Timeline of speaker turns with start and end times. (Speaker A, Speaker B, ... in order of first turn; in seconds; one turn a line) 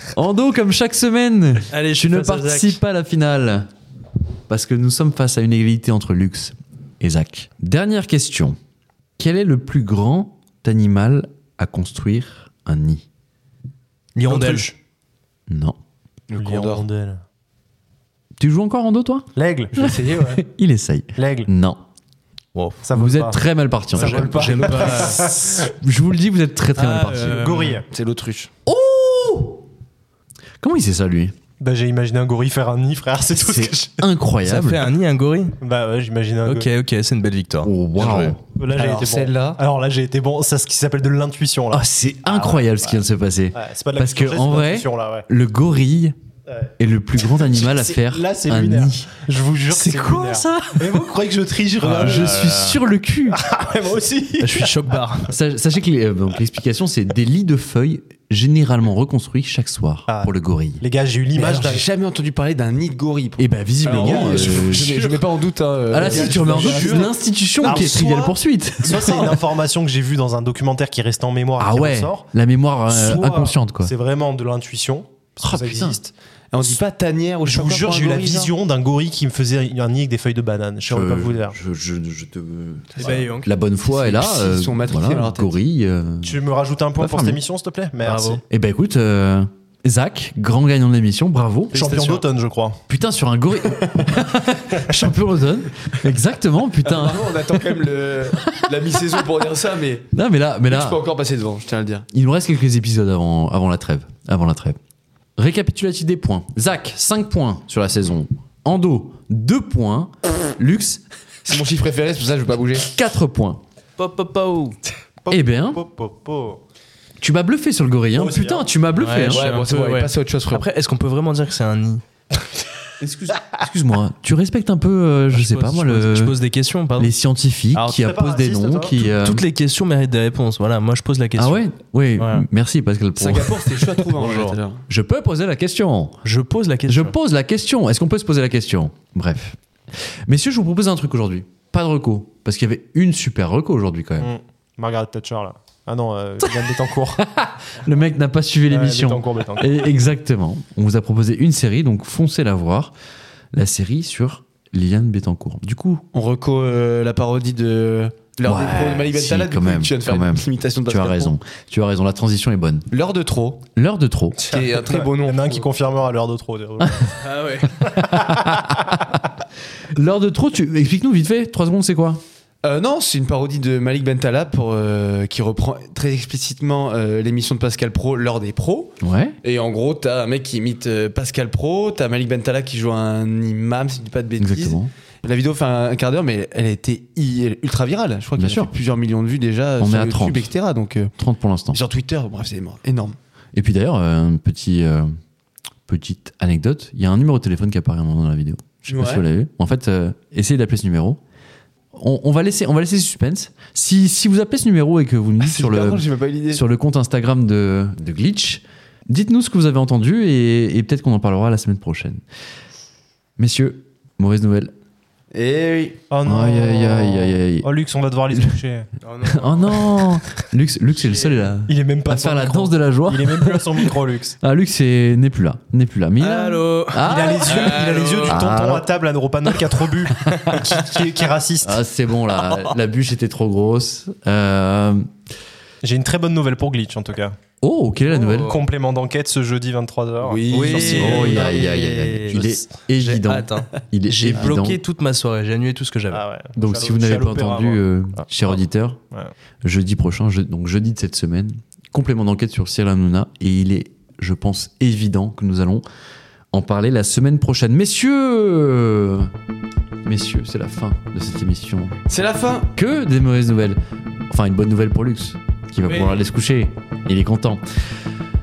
Speaker A: 0.1-3.7
Speaker B: 1.7-2.8
Speaker A: 4.5-8.6
Speaker A: 9.2-13.0
Speaker B: 14.2-14.7
Speaker C: 14.2-14.7
Speaker A: 15.5-15.8
Speaker D: 16.3-16.8
Speaker C: 16.4-17.2
Speaker A: 18.4-21.8
Speaker C: 19.3-19.7
Speaker D: 19.7-20.4
Speaker C: 21.1-21.5
Speaker B: 22.5-22.8
Speaker C: 22.8-23.4
Speaker A: 22.9-27.4
Speaker C: 23.9-25.7
Speaker B: 24.0-25.4
Speaker D: 24.0-25.0
Speaker B: 26.8-27.8
Speaker C: 27.2-27.9
Speaker D: 27.9-28.5
Speaker A: 28.6-29.6
Speaker A: 30.6-31.3
Speaker C: 31.6-34.1
Speaker A: 33.4-34.9
Speaker B: 34.4-35.6
Speaker C: 35.6-36.7
Speaker B: 36.5-38.4
Speaker A: 37.6-38.4
Speaker C: 38.5-45.3
Speaker D: 38.7-39.6
Speaker A: 41.7-46.1
Speaker C: 46.5-52.4
Speaker A: 46.8-49.1
Speaker A: 49.7-51.1
Speaker B: 51.8-52.8
Speaker A: 51.8-53.4
Speaker C: 53.3-54.7
Speaker B: 54.4-55.3
Speaker A: 55.3-60.8
Speaker C: 60.1-61.8
Speaker D: 61.4-68.3
Speaker A: 63.4-65.1
Speaker C: 63.8-65.2
Speaker A: 65.9-69.4
Speaker C: 66.0-68.3
Speaker C: 68.8-72.3
Speaker A: 71.6-73.9
Speaker C: 72.9-76.1
Speaker A: 75.4-76.0
Speaker D: 76.5-78.5
Speaker C: 77.5-81.6
Speaker A: 80.9-86.4
Speaker B: 83.0-83.5
Speaker D: 83.8-85.6
Speaker C: 86.2-88.4
Speaker A: 87.0-87.4
Speaker B: 88.0-88.4
Speaker A: 88.5-92.2
Speaker C: 91.7-92.8
Speaker A: 92.9-97.7
Speaker D: 96.8-100.1
Speaker A: 100.1-101.0
Speaker D: 100.7-102.1
Speaker A: 102.1-104.8
Speaker A: 105.4-111.0
Speaker D: 111.5-112.9
Speaker A: 112.9-113.6
Speaker B: 114.0-114.8
Speaker C: 115.2-116.6
Speaker A: 115.3-115.8
Speaker A: 117.2-119.5
Speaker C: 118.2-118.7
Speaker B: 119.0-122.0
Speaker D: 119.3-120.7
Speaker A: 123.0-126.3
Speaker B: 125.3-127.1
Speaker A: 127.0-129.4
Speaker C: 127.8-129.0
Speaker B: 129.0-131.6
Speaker A: 131.4-133.5
Speaker B: 132.2-132.4
Speaker D: 133.2-134.8
Speaker B: 134.1-134.6
Speaker A: 134.9-136.2
Speaker B: 136.2-137.2
Speaker A: 136.9-144.3
Speaker C: 144.2-147.2
Speaker A: 146.4-152.9
Speaker C: 148.7-149.7
Speaker A: 153.5-156.0
Speaker D: 156.1-161.3
Speaker A: 158.4-162.9
Speaker D: 162.9-163.7
Speaker A: 163.7-164.4
Speaker C: 164.4-167.3
Speaker D: 164.5-165.7
Speaker B: 167.2-167.8
Speaker A: 167.8-169.2
Speaker C: 168.0-168.9
Speaker A: 169.9-172.2
Speaker D: 172.6-191.1
Speaker A: 179.0-179.3
Speaker A: 184.4-184.9
Speaker A: 188.4-188.7
Speaker A: 189.8-190.5
Speaker A: 191.2-191.8
Speaker D: 191.7-193.2
Speaker A: 193.5-195.1
Speaker A: 195.8-201.2
Speaker D: 198.9-199.2
Speaker A: 201.9-212.2
Speaker D: 205.4-206.6
Speaker A: 213.4-214.7
Speaker D: 215.3-216.0
Speaker C: 216.1-218.9
Speaker A: 216.2-217.7
Speaker B: 219.0-220.2
Speaker A: 219.2-228.9
Speaker B: 220.9-221.4
Speaker C: 221.7-224.4
Speaker B: 226.2-228.6
Speaker C: 227.0-231.8
Speaker B: 230.3-230.8
Speaker A: 231.6-235.1
Speaker B: 232.3-232.7
Speaker C: 235.8-237.4
Speaker A: 237.6-238.6
Speaker B: 238.1-238.6
Speaker C: 238.3-241.6
Speaker D: 240.2-241.9
Speaker B: 240.5-246.2
Speaker A: 240.9-244.8
Speaker C: 246.1-247.8
Speaker A: 246.6-249.0
Speaker A: 249.6-255.8
Speaker A: 256.5-259.3
Speaker A: 260.0-262.0
Speaker D: 262.1-262.7
Speaker A: 262.7-263.8
Speaker A: 264.3-267.6
Speaker B: 265.9-266.2